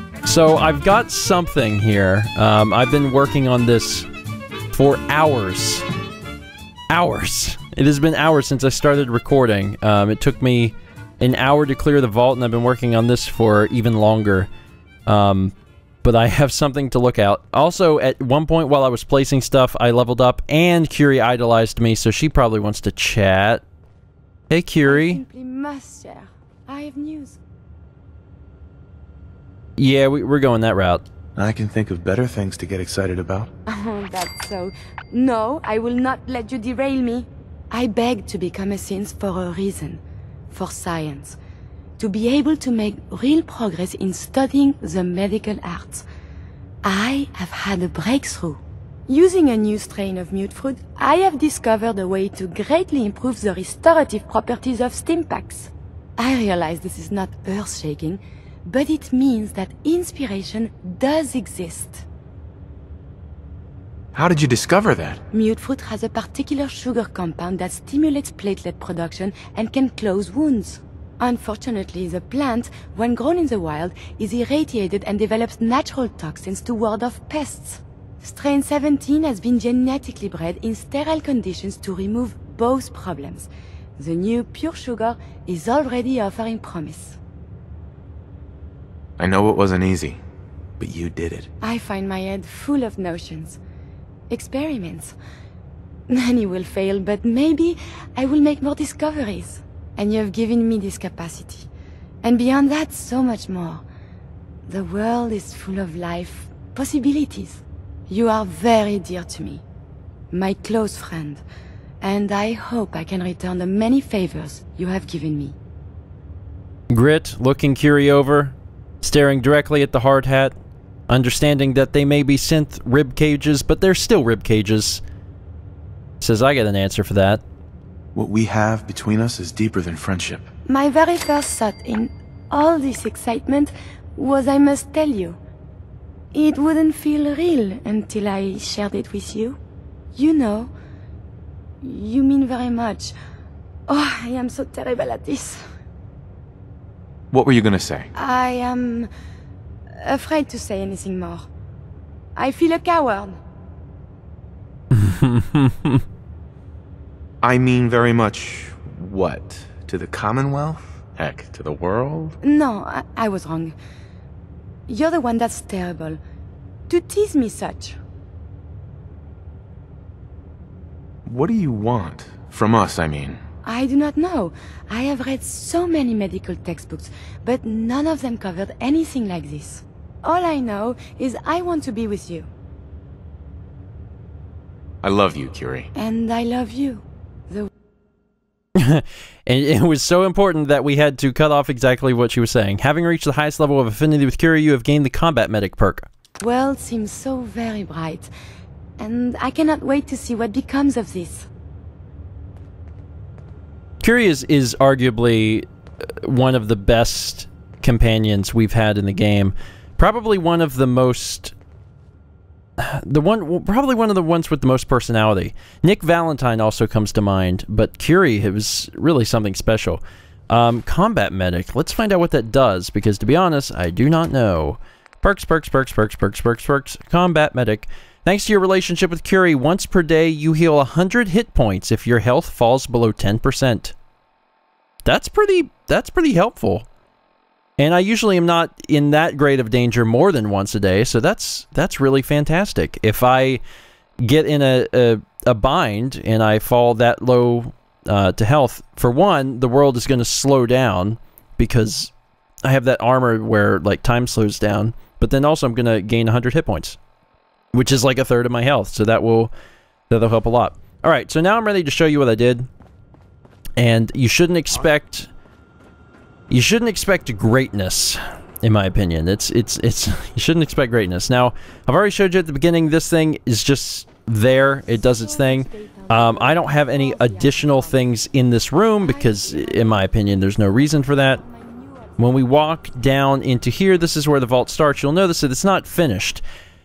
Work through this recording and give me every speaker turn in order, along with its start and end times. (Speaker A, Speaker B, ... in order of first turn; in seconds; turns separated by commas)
Speaker A: 0.2-4.1, Speaker A: 4.7-5.8, Speaker A: 6.9-14.5, Speaker A: 15.1-23.6, Speaker A: 24.5-25.2, Speaker B: 24.9-27.4, Speaker A: 29.8-31.1, Speaker C: 31.4-33.5, Speaker B: 33.7-40.0, Speaker B: 40.5-41.4, Speaker B: 42.0-46.0, Speaker B: 46.8-62.0, Speaker C: 64.1-65.2, Speaker B: 65.3-87.2, Speaker C: 89.2-90.2, Speaker C: 90.8-91.5, Speaker B: 91.6-93.6, Speaker B: 94.3-95.1, Speaker B: 96.1-101.7, Speaker B: 102.2-103.8, Speaker B: 104.7-109.6, Speaker B: 110.3-111.4, Speaker B: 112.0-115.5, Speaker A: 116.9-120.5, Speaker A: 121.1-125.0, Speaker A: 126.2-127.4, Speaker C: 128.1-130.5, Speaker B: 130.7-135.4, Speaker B: 136.3-139.6, Speaker B: 140.1-140.7, Speaker B: 141.8-143.1, Speaker B: 143.9-145.6, Speaker C: 147.3-148.1, Speaker B: 148.1-149.1, Speaker B: 150.0-151.5, Speaker B: 152.3-153.4, Speaker A: 154.9-156.0, Speaker C: 157.4-162.3, Speaker B: 162.4-163.7, Speaker B: 164.9-166.2, Speaker B: 166.9-168.0, Speaker C: 171.2-173.4, Speaker B: 173.6-182.5, Speaker C: 185.0-185.9, Speaker B: 185.9-187.7, Speaker A: 188.7-196.1, Speaker B: 196.4-198.3, Speaker B: 199.0-201.5, Speaker A: 204.0-205.7, Speaker A: 206.2-211.5, Speaker A: 212.8-233.9, Speaker A: 235.0-236.8, Speaker A: 237.8-243.6, Speaker A: 244.2-252.1, Speaker A: 252.6-257.0, Speaker A: 257.7-259.5, Speaker A: 260.1-262.7, Speaker A: 263.8-265.3, Speaker A: 266.5-281.4, Speaker B: 274.5-278.1, Speaker B: 279.0-282.6, Speaker A: 282.2-286.4